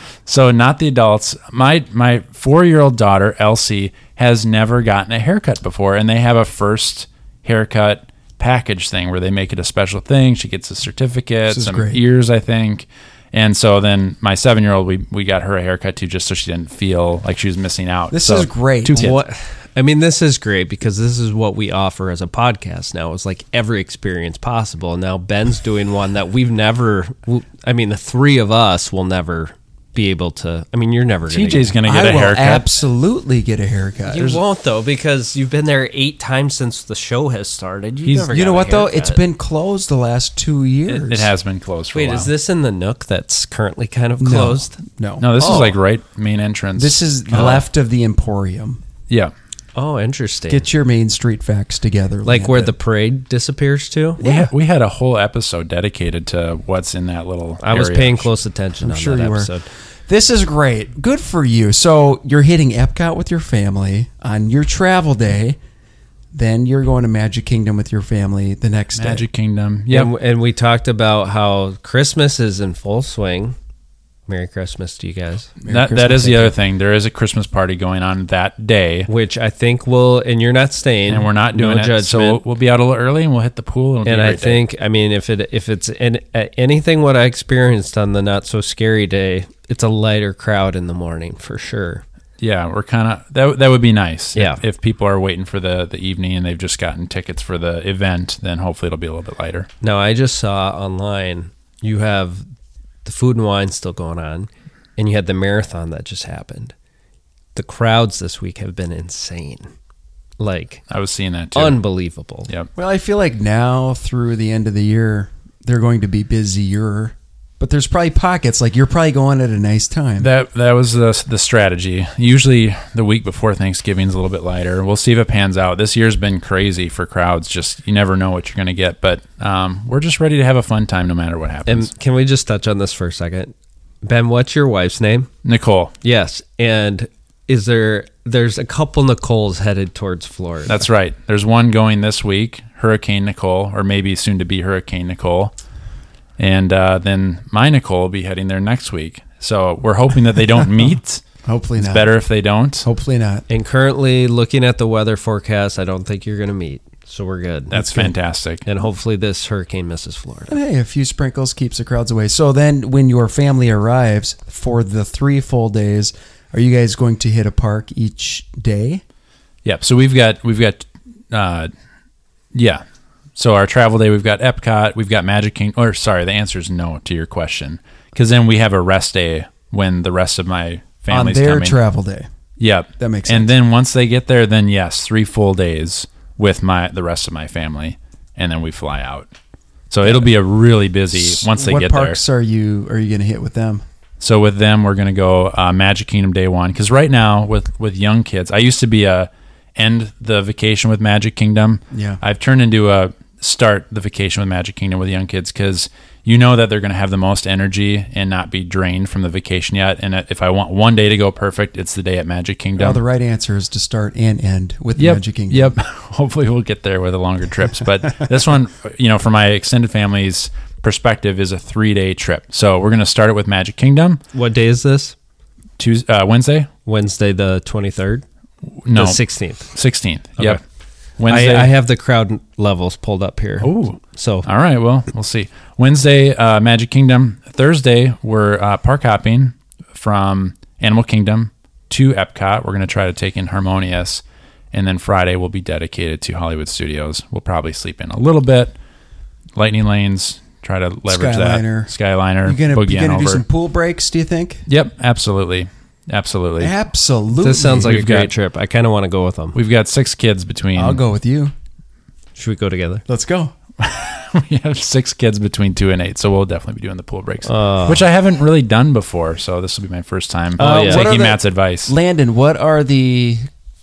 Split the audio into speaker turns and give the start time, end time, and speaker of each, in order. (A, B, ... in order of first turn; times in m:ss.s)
0:00.3-0:19.2 A
0:11.5-0:12.0 B
0:18.1-0:19.1 B
0:18.9-0:31.7 C
0:31.3-0:32.7 A
0:31.8-0:34.4 B
0:34.1-0:39.2 C
0:38.0-0:38.3 A
0:38.3-0:41.3 B
0:40.9-0:42.3 A
0:41.9-0:44.8 C
0:44.2-0:45.8 B
0:45.2-0:47.6 A
0:46.8-0:48.8 B
0:49.8-0:50.7 C
0:50.5-0:52.7 B
0:52.2-0:54.2 C
0:54.2-0:54.5 B
0:54.2-0:58.3 A
0:57.6-0:59.6 C
0:58.8-0:59.5 B
1:00.1-1:05.6 B
1:06.3-1:09.2 B
1:09.0-1:10.1 A
1:09.9-1:13.6 C
1:14.3-1:15.5 C
1:15.6-1:16.6 B
1:15.7-1:19.1 A
1:19.1-1:22.4 C
1:21.1-1:24.6 A
1:24.0-1:32.0 C
1:32.4-1:39.7 A
1:34.4-1:34.6 C
1:39.8-1:42.5 C
1:43.0-1:46.7 C
1:47.6-1:49.7 C
1:50.4-1:50.8 C
1:50.9-1:51.8 A
1:51.6-1:52.5 C
1:52.8-2:00.3 B
2:00.2-2:11.9 A
2:11.7-2:15.3 C
2:15.4-2:15.9 A
2:16.0-2:20.8 C
2:20.7-2:25.5 A
2:26.4-2:31.2 A
2:31.4-2:32.2 B
2:31.8-2:32.9 A
2:32.8-2:33.4 B
2:33.5-2:38.0 C
2:37.7-2:38.6 A
2:37.8-2:38.1 B
2:38.7-2:40.6 C
2:40.5-2:49.0 B
2:49.6-2:51.7 A
2:52.5-2:52.8 A
2:53.4-3:01.8 A
3:01.1-3:02.3 B
3:02.6-3:09.3 A
3:03.0-3:03.5 B
3:09.9-3:12.2 A
3:11.2-3:13.8 B
3:14.2-3:33.0 A
3:21.9-3:22.2 B
3:32.8-3:35.8 B
3:35.0-3:44.2 A
3:44.3-3:45.2 C
3:45.8-3:46.7 A
3:46.8-3:48.2 C
3:48.8-3:50.6 A
3:48.9-3:49.7 C
3:51.2-3:51.7 A
3:51.3-3:54.5 C
3:53.6-4:08.8 A
4:09.6-4:13.4 A
4:11.1-4:11.9 B
4:12.4-4:14.6 B
4:14.7-4:16.7 A
4:16.6-4:18.0 B
4:17.4-4:19.6 C
4:17.7-4:18.3 A
4:19.5-4:21.0 A
4:20.8-4:21.5 B
4:22.4-4:23.0 C
4:23.1-4:23.5 B
4:23.8-4:31.9 A
4:27.5-4:28.0 C
4:30.6-4:33.5 B
4:30.6-4:31.1 C